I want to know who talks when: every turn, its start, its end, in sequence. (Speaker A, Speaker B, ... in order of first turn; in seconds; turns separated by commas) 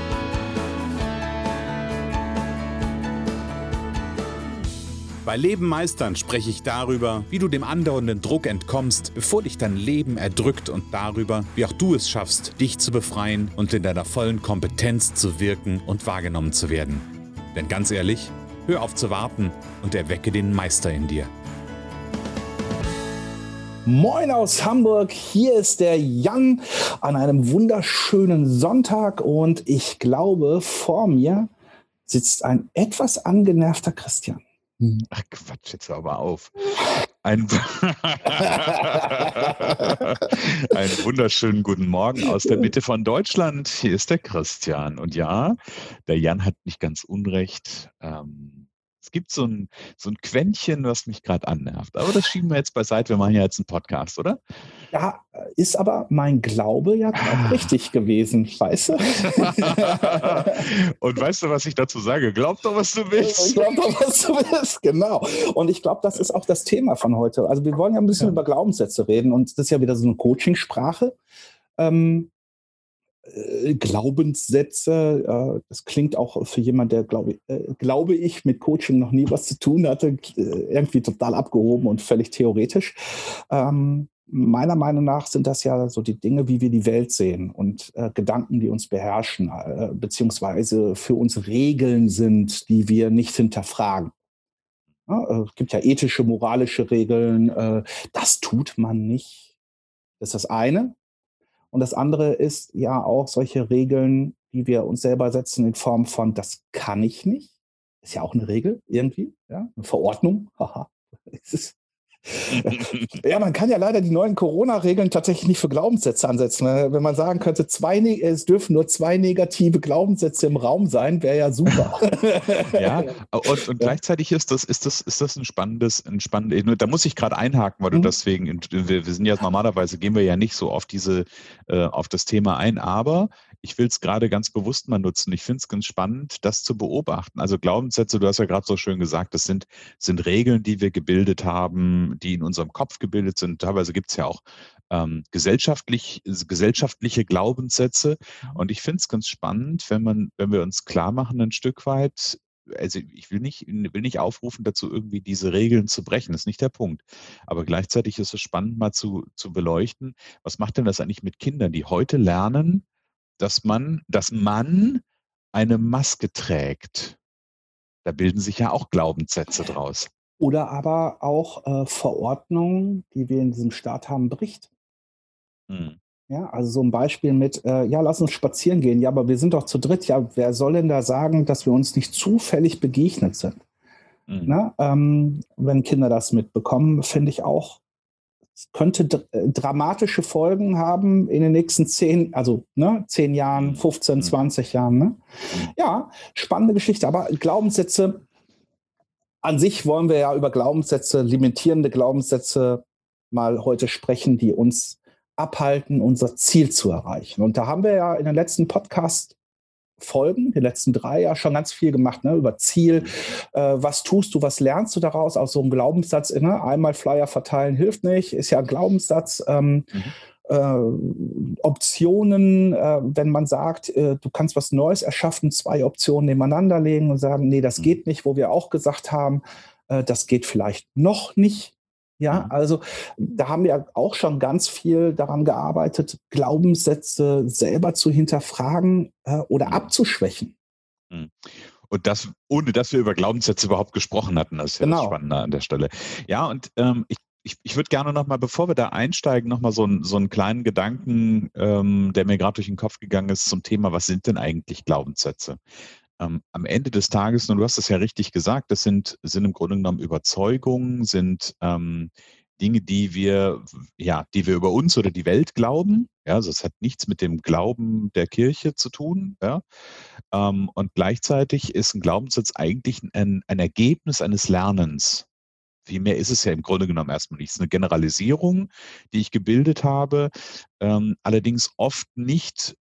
Speaker A: 5.2-21.3, Speaker B: 23.9-31.5, Speaker B: 32.1-35.0, Speaker A: 35.1-36.5, Speaker A: 37.2-54.4, Speaker B: 54.9-60.7, Speaker A: 57.2-57.7, Speaker A: 59.2-63.7, Speaker B: 63.2-71.2, Speaker B: 71.8-72.3, Speaker B: 73.2-94.1, Speaker B: 95.1-99.5, Speaker B: 100.2-101.0, Speaker B: 101.7-107.5, Speaker B: 108.0-123.1, Speaker A: 112.5-113.1, Speaker A: 122.7-162.8, Speaker A: 163.4-167.2, Speaker A: 168.1-170.1, Speaker B: 170.4-174.7, Speaker A: 175.7-176.0, Speaker B: 176.3-183.6, Speaker A: 184.3-184.5, Speaker B: 184.5-187.8, Speaker B: 188.7-195.2, Speaker A: 193.5-194.3, Speaker B: 195.7-198.2, Speaker B: 199.4-209.3, Speaker B: 210.0-219.9, Speaker B: 220.4-240.5, Speaker A: 239.7-239.9, Speaker A: 241.1-255.6, Speaker B: 244.8-245.2, Speaker A: 256.2-269.6, Speaker A: 270.3-275.3, Speaker A: 275.9-282.8